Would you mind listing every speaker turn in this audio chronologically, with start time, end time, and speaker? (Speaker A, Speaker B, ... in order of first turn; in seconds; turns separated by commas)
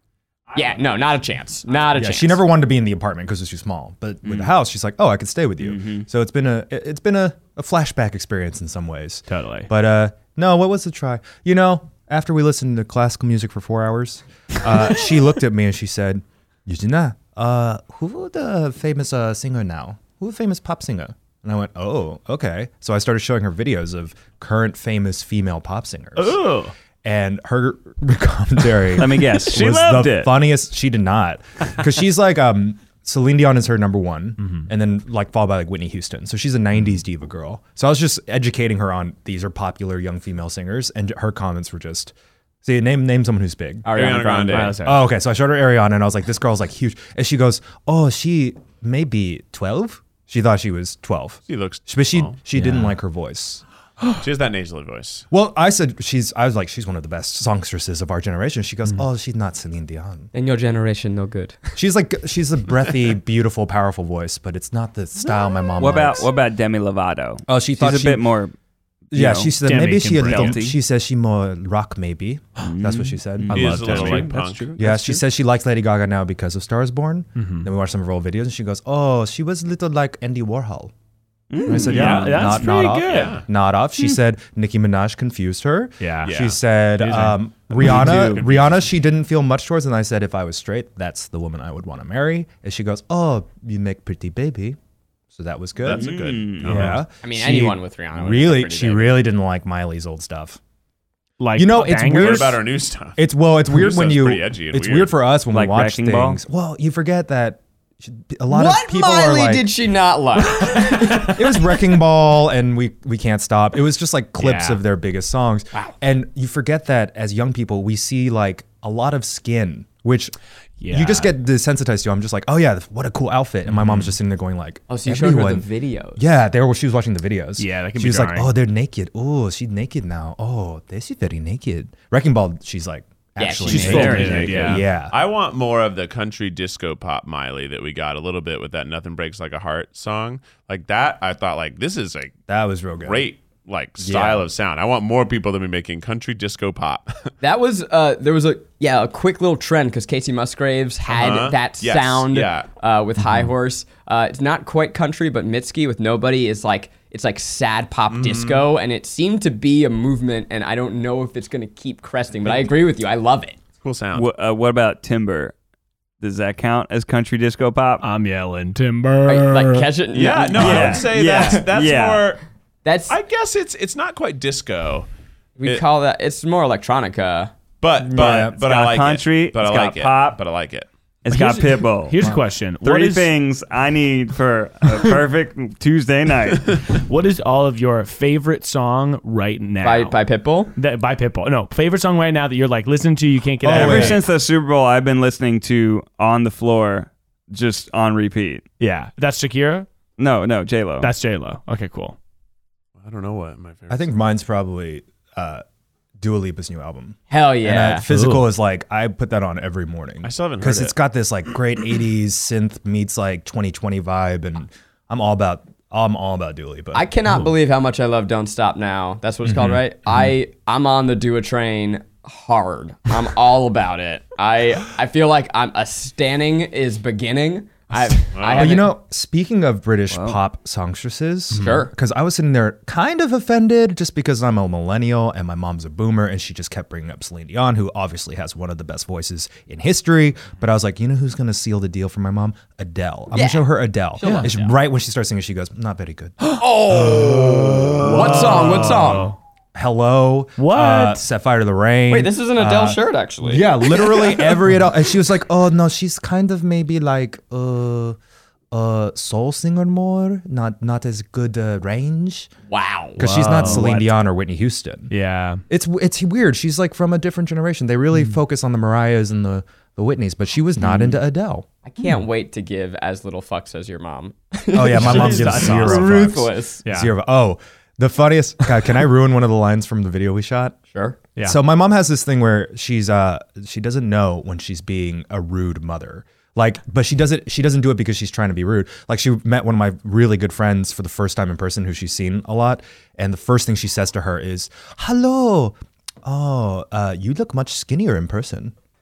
Speaker A: 0.5-2.4, Speaker B: 1.9-26.4, Speaker C: 5.6-6.0, Speaker D: 9.3-9.7, Speaker D: 26.1-26.7, Speaker B: 27.0-43.9, Speaker C: 28.9-30.3, Speaker A: 43.8-44.8, Speaker E: 43.9-44.8, Speaker D: 44.5-45.0, Speaker B: 44.8-53.6, Speaker E: 51.5-52.4, Speaker D: 52.5-52.9, Speaker E: 54.2-55.2, Speaker B: 55.3-60.3, Speaker A: 60.3-61.6, Speaker B: 61.7-66.3, Speaker C: 65.8-68.5, Speaker B: 67.5-68.2, Speaker B: 69.1-73.9, Speaker C: 69.1-69.5, Speaker D: 69.6-70.6, Speaker C: 70.2-70.7, Speaker C: 72.6-75.2, Speaker D: 73.5-74.6, Speaker E: 73.5-74.7, Speaker B: 74.8-80.9, Speaker D: 77.3-77.7, Speaker C: 81.5-82.5, Speaker D: 81.7-83.4, Speaker B: 81.7-94.8, Speaker E: 83.1-83.4, Speaker D: 86.0-86.4, Speaker E: 86.2-86.6, Speaker D: 87.0-88.7, Speaker B: 95.3-100.6, Speaker E: 95.8-97.0, Speaker C: 95.9-97.0, Speaker A: 97.2-99.2, Speaker D: 101.4-102.5, Speaker B: 101.5-102.6, Speaker E: 102.1-105.1, Speaker B: 103.2-109.7, Speaker C: 105.5-106.4, Speaker A: 108.5-111.4, Speaker B: 111.1-120.3, Speaker D: 114.4-114.8, Speaker D: 120.8-121.3, Speaker B: 120.9-125.6, Speaker D: 123.7-124.1, Speaker A: 124.9-126.2, Speaker B: 126.2-135.2, Speaker D: 127.6-128.5, Speaker A: 133.4-134.5, Speaker D: 133.7-134.8, Speaker C: 133.7-134.6, Speaker E: 134.1-142.3, Speaker B: 142.5-143.3, Speaker E: 143.0-147.3, Speaker B: 144.0-144.4, Speaker A: 147.4-163.6, Speaker E: 151.1-152.7, Speaker E: 158.1-158.7, Speaker E: 163.8-164.3, Speaker C: 164.1-165.5, Speaker C: 166.2-168.0, Speaker D: 168.0-169.9, Speaker A: 169.2-171.5, Speaker E: 170.1-172.4, Speaker C: 170.6-172.2, Speaker A: 172.8-173.1, Speaker E: 173.1-175.1, Speaker A: 175.6-177.5, Speaker E: 177.8-180.9, Speaker B: 178.0-178.6, Speaker C: 178.2-180.4, Speaker C: 181.2-187.0, Speaker D: 181.3-183.3, Speaker D: 186.8-190.2, Speaker A: 189.8-190.7, Speaker D: 190.7-194.2, Speaker B: 193.6-194.2, Speaker C: 193.7-198.6, Speaker D: 198.8-199.9, Speaker C: 200.2-201.1, Speaker D: 201.0-202.2, Speaker E: 203.0-204.1, Speaker B: 203.9-205.6, Speaker B: 206.2-217.1, Speaker A: 207.3-208.0, Speaker D: 208.1-208.5, Speaker E: 210.2-210.9, Speaker A: 216.9-228.9, Speaker B: 219.4-220.3, Speaker E: 228.3-228.8, Speaker B: 228.5-248.4, Speaker C: 230.1-230.4, Speaker A: 231.5-231.9, Speaker A: 243.3-244.7, Speaker D: 244.2-244.5, Speaker A: 246.6-249.3, Speaker D: 248.0-249.3, Speaker B: 249.7-258.2, Speaker D: 250.6-251.2, Speaker A: 252.1-254.5, Speaker B: 258.7-262.5, Speaker A: 262.7-263.9, Speaker B: 263.2-265.1, Speaker D: 263.2-264.1, Speaker D: 265.1-265.6, Speaker B: 265.7-271.6, Speaker A: 271.8-276.8, Speaker B: 274.7-280.8, Speaker D: 275.0-276.3, Speaker D: 276.8-277.1, Speaker A: 280.9-281.2, Speaker B: 281.4-298.7